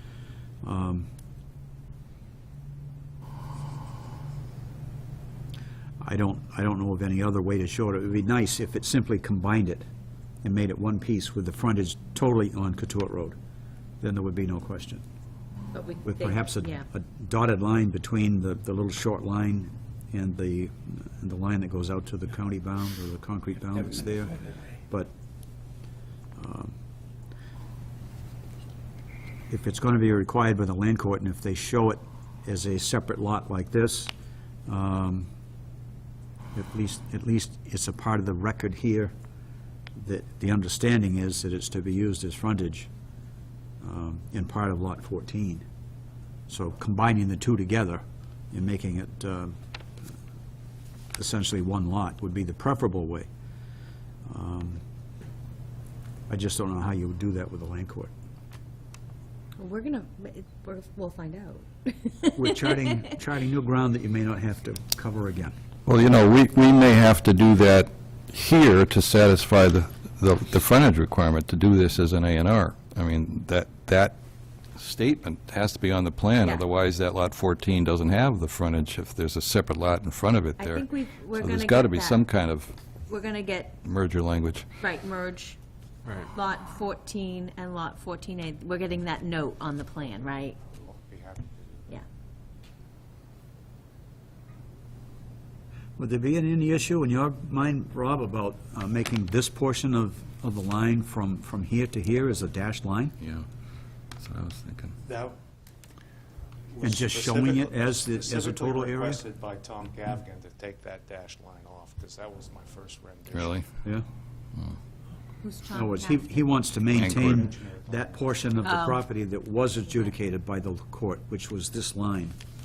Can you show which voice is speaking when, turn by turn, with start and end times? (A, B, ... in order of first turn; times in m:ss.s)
0:00.6-0:01.1 A
0:06.0-0:09.9 A
0:10.4-0:13.4 A
0:14.0-0:15.0 A
0:15.7-0:16.8 B
0:16.0-0:24.4 A
0:26.4-0:26.8 A
0:29.5-0:34.1 A
0:34.7-0:35.3 A
0:36.5-0:39.1 A
0:40.0-0:42.9 A
0:43.8-0:45.7 A
0:46.5-0:49.6 A
0:51.2-0:53.3 A
0:54.3-0:54.8 A
0:56.3-0:58.1 A
0:59.6-1:03.0 B
1:02.3-1:05.6 A
1:05.9-1:14.2 C
1:14.8-1:22.7 C
1:20.6-1:22.2 B
1:23.1-1:23.8 B
1:23.8-1:24.7 C
1:24.8-1:25.6 B
1:26.3-1:30.6 B
1:30.7-1:31.9 D
1:36.0-1:43.2 A
1:43.2-1:43.5 C
1:44.2-1:45.0 C
1:45.0-1:45.4 D
1:46.7-1:53.6 D
1:46.8-1:49.2 A
1:53.3-1:53.7 C
1:55.4-1:56.4 B
1:55.7-2:02.4 A
1:56.7-1:58.5 D
1:56.9-1:57.5 C
1:58.6-1:59.0 B